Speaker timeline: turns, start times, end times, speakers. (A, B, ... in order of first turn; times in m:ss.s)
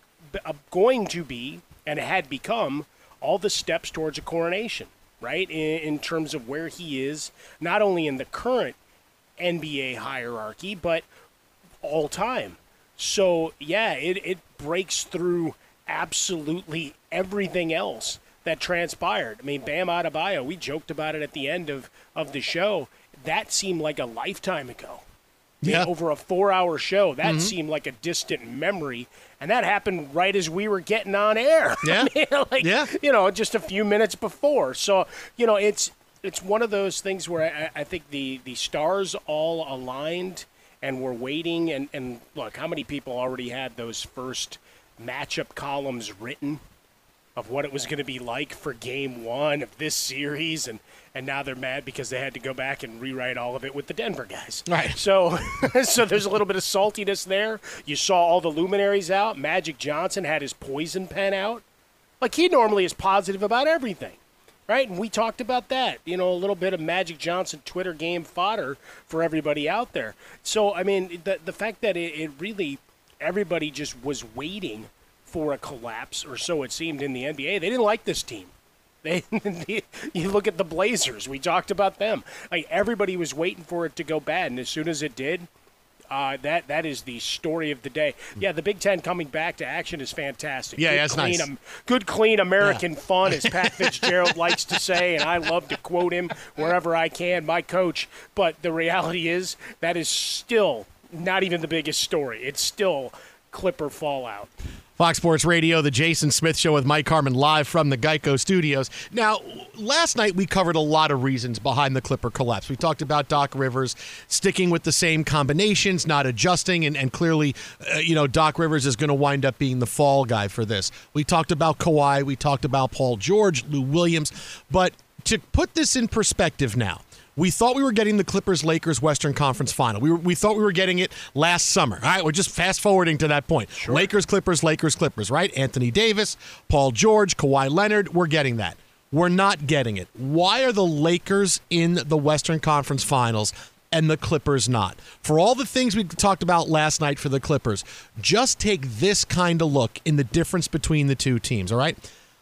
0:00.3-0:08.8 A
0:09.4-0:11.1 A
0:11.8-0:25.0 A
0:25.6-0:25.9 B
0:25.6-0:46.6 A
0:27.2-0:27.5 B
0:31.8-0:32.9 B
0:47.4-1:01.6 A
0:54.7-0:55.0 B
1:02.2-1:18.5 A
1:19.0-1:25.5 A
1:26.1-1:44.5 A
1:30.8-1:31.5 B
1:32.6-1:34.3 B
1:45.0-2:32.0 B
2:13.8-2:14.1 A